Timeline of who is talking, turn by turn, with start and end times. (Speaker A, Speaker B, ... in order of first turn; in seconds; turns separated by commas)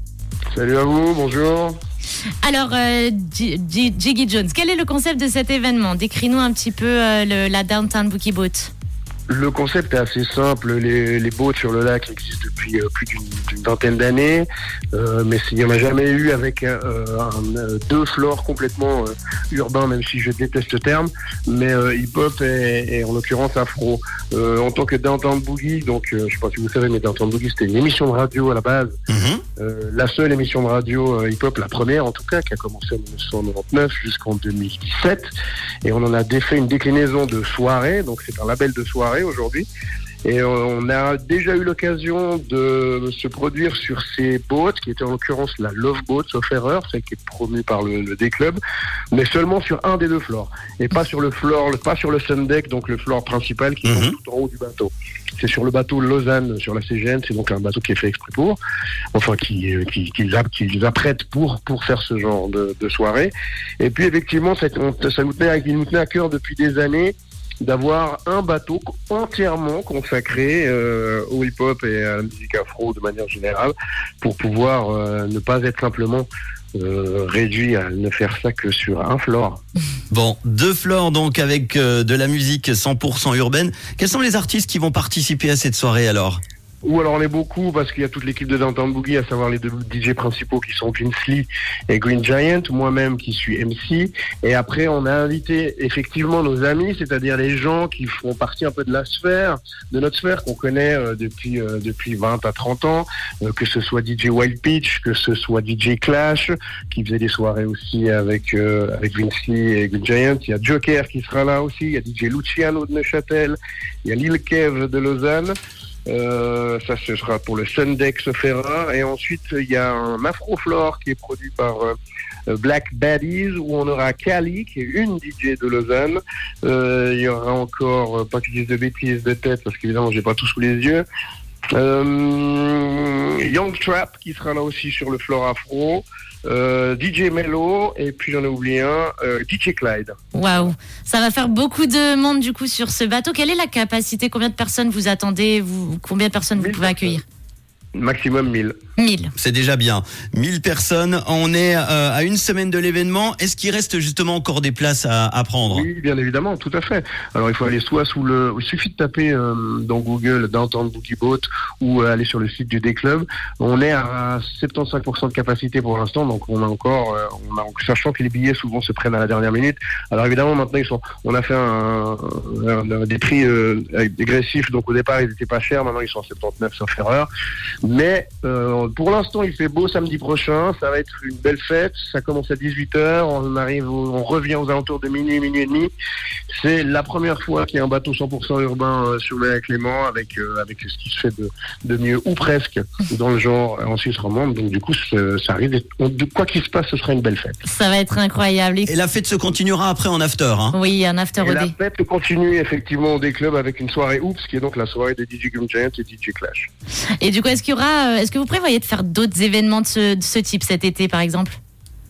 Speaker A: 0.5-1.8, Speaker B: 2.4-8.7, Speaker A: 9.3-28.9, Speaker C: 29.1-29.4, Speaker A: 29.6-35.3, Speaker A: 35.8-39.7, Speaker A: 40.2-48.6, Speaker A: 49.1-58.6, Speaker C: 53.8-54.1, Speaker A: 59.1-79.6, Speaker C: 80.1-86.4, Speaker A: 86.8-115.5, Speaker A: 116.1-122.0, Speaker A: 122.5-131.0, Speaker A: 131.7-140.7, Speaker B: 140.3-147.2, Speaker A: 146.6-147.2, Speaker A: 147.9-148.8, Speaker B: 149.0-149.3, Speaker C: 149.4-155.9, Speaker A: 155.7-177.3, Speaker A: 177.8-185.9, Speaker A: 186.5-197.6, Speaker B: 197.7-198.9, Speaker C: 198.8-200.8, Speaker B: 200.7-201.7, Speaker A: 201.4-206.7, Speaker B: 207.2-211.6